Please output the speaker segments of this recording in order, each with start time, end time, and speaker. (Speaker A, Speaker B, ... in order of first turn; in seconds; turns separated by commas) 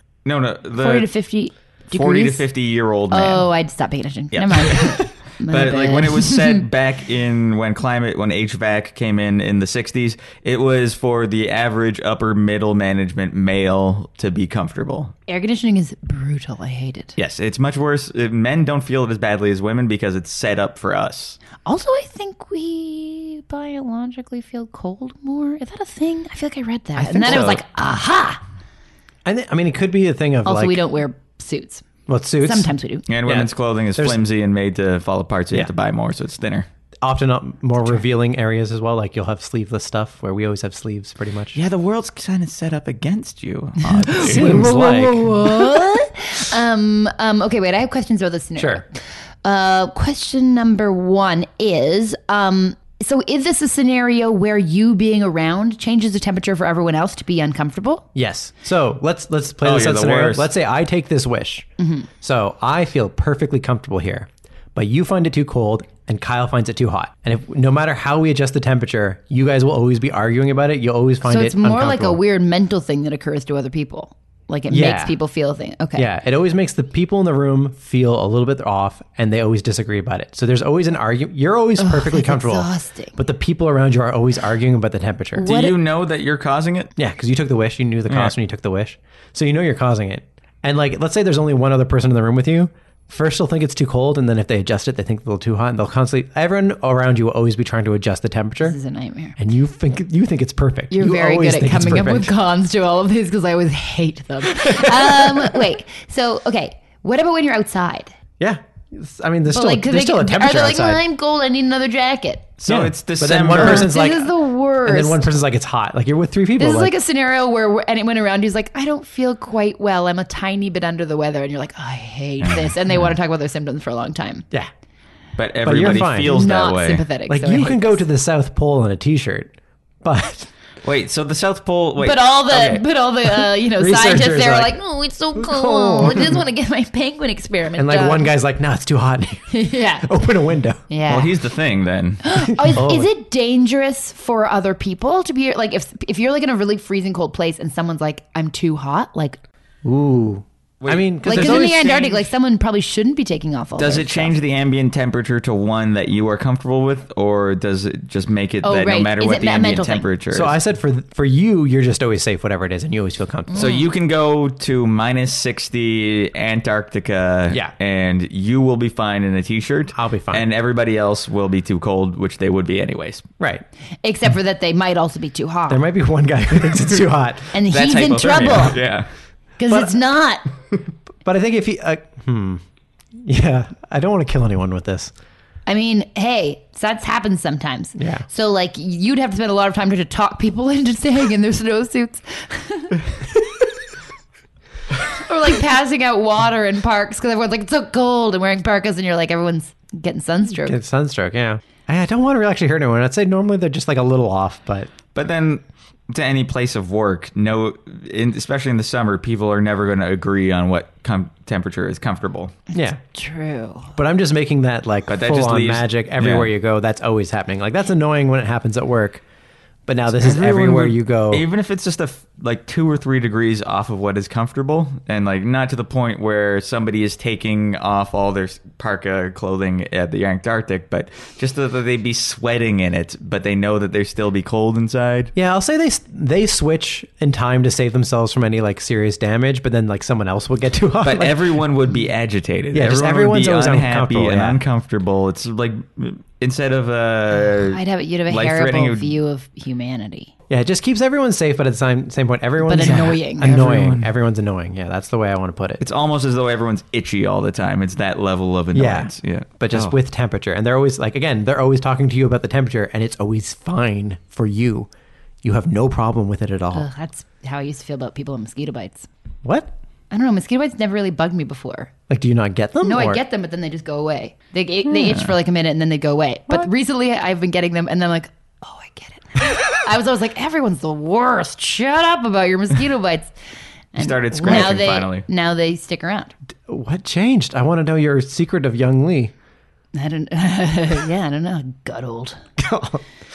Speaker A: 0.2-1.1, Speaker B: 0.8-2.4, Speaker A: 1.9-3.5, Speaker B: 3.1-6.6, Speaker A: 4.3-15.1, Speaker B: 15.3-17.1, Speaker A: 17.2-21.4, Speaker B: 21.6-28.4, Speaker C: 27.0-27.6, Speaker A: 27.3-27.6, Speaker C: 29.2-30.8, Speaker B: 30.4-31.9, Speaker C: 32.1-32.7, Speaker B: 32.4-33.0, Speaker A: 33.1-36.7, Speaker C: 33.2-34.2, Speaker C: 37.0-41.6, Speaker A: 41.5-44.7, Speaker B: 44.1-58.0, Speaker C: 44.1-45.7, Speaker C: 48.6-48.8, Speaker C: 58.1-61.7, Speaker A: 59.6-60.5, Speaker B: 61.8-62.1, Speaker C: 62.2-72.2, Speaker B: 71.2-76.1, Speaker C: 74.7-75.2, Speaker C: 76.0-85.5, Speaker B: 81.8-83.2, Speaker B: 85.4-85.8, Speaker A: 85.4-86.9, Speaker C: 87.0-98.8, Speaker A: 88.1-88.3, Speaker B: 98.6-99.4, Speaker C: 99.4-102.3, Speaker B: 100.9-108.1, Speaker C: 104.6-105.5, Speaker C: 108.4-111.0, Speaker B: 109.5-112.5, Speaker A: 112.6-113.9, Speaker C: 112.7-116.9, Speaker B: 113.5-115.3, Speaker B: 116.6-124.5, Speaker A: 122.4-122.7, Speaker A: 125.4-127.0, Speaker C: 125.6-126.4, Speaker B: 126.2-128.0, Speaker C: 127.3-130.5, Speaker A: 130.8-132.8, Speaker B: 132.0-138.3, Speaker C: 133.6-134.8, Speaker C: 135.3-136.4, Speaker C: 137.8-140.8, Speaker B: 139.5-140.2, Speaker B: 140.9-141.3, Speaker A: 141.1-142.2, Speaker B: 142.2-149.4, Speaker C: 142.6-143.1, Speaker C: 149.8-151.9, Speaker A: 150.8-152.3, Speaker B: 151.2-154.4, Speaker A: 153.8-160.6, Speaker B: 158.6-160.1, Speaker C: 160.3-163.7, Speaker B: 163.5-163.9, Speaker A: 163.6-173.2, Speaker C: 169.9-170.5, Speaker C: 173.4-173.7, Speaker B: 174.0-175.8, Speaker C: 175.7-177.5, Speaker B: 177.5-178.8, Speaker A: 177.7-179.1, Speaker B: 179.6-180.4, Speaker C: 181.2-182.6, Speaker C: 183.2-185.1, Speaker B: 185.7-193.0, Speaker C: 188.0-188.2, Speaker B: 195.2-200.8, Speaker C: 200.5-204.9, Speaker A: 205.2-212.6, Speaker C: 212.8-213.0, Speaker B: 213.1-213.9, Speaker C: 214.0-219.2, Speaker A: 215.1-216.5, Speaker C: 219.9-221.4, Speaker A: 220.1-235.3, Speaker C: 235.3-241.6, Speaker A: 241.0-249.2, Speaker C: 242.7-244.6, Speaker B: 247.4-250.3, Speaker C: 250.5-255.8, Speaker B: 252.6-253.5, Speaker A: 252.8-254.1, Speaker A: 255.8-260.0, Speaker C: 258.7-264.9, Speaker C: 265.4-266.9, Speaker B: 266.7-269.1, Speaker C: 269.4-269.8, Speaker B: 270.1-271.9, Speaker C: 272.1-273.2, Speaker B: 272.8-283.3, Speaker A: 275.0-275.3, Speaker B: 283.9-286.3, Speaker A: 284.0-285.3, Speaker C: 284.4-284.9, Speaker C: 286.7-289.3, Speaker B: 289.9-292.4, Speaker C: 292.6-293.0